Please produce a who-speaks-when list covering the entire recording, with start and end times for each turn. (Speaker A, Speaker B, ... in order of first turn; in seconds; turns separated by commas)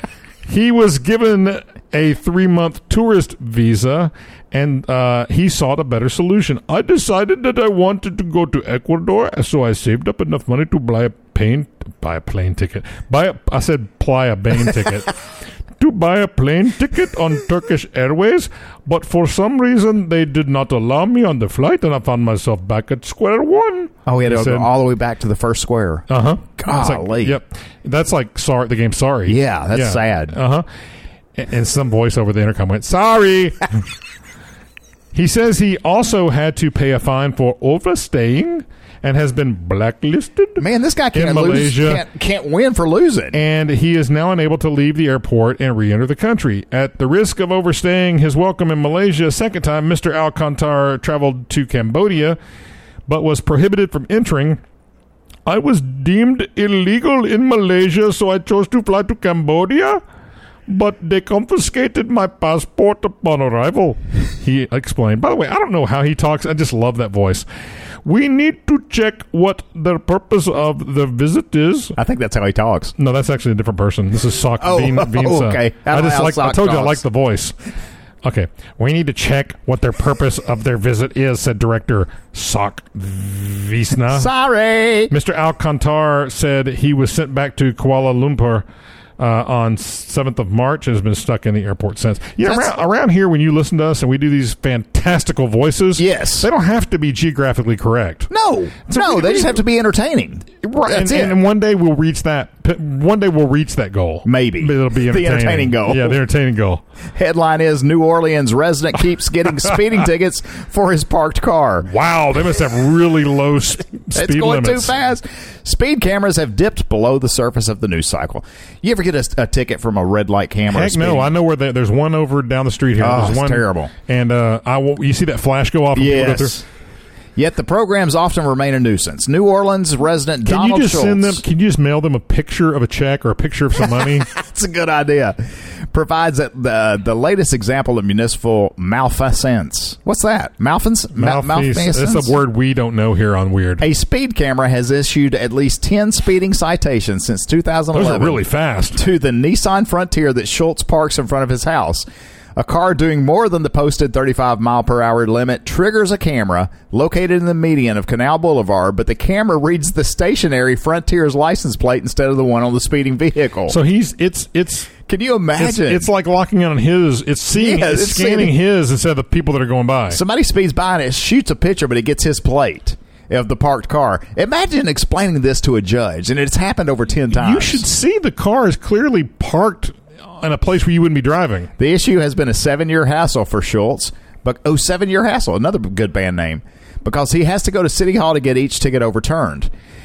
Speaker A: 0.5-15.1, Speaker A: 15.8-24.7, Speaker B: 24.1-27.4, Speaker A: 26.1-30.6, Speaker B: 29.2-30.3, Speaker A: 31.3-33.8, Speaker A: 35.1-42.0, Speaker B: 40.6-43.4, Speaker A: 43.3-52.4, Speaker A: 53.1-54.6, Speaker A: 55.5-60.0, Speaker A: 60.7-67.5, Speaker A: 68.0-72.0, Speaker B: 72.0-72.9, Speaker A: 73.0-77.5, Speaker B: 74.6-77.0, Speaker A: 78.2-84.3, Speaker B: 84.1-85.1, Speaker A: 85.1-88.6, Speaker A: 89.2-98.3, Speaker B: 92.4-92.8, Speaker B: 96.0-96.5, Speaker B: 98.3-101.4, Speaker A: 98.8-99.6, Speaker A: 100.6-106.8, Speaker B: 104.2-106.2, Speaker B: 107.1-111.9, Speaker A: 111.8-114.9, Speaker B: 114.1-121.3, Speaker A: 120.7-126.6, Speaker B: 123.0-123.9, Speaker B: 125.9-126.6, Speaker B: 127.3-131.4, Speaker A: 130.4-134.3, Speaker B: 133.8-142.3, Speaker A: 141.1-143.9, Speaker B: 143.8-148.4, Speaker A: 147.9-149.0, Speaker B: 148.9-152.1, Speaker B: 152.6-163.8, Speaker A: 163.7-164.9, Speaker B: 165.1-166.1, Speaker A: 165.6-170.2, Speaker B: 167.5-168.5, Speaker B: 170.1-177.8, Speaker A: 177.3-181.7, Speaker B: 181.8-189.7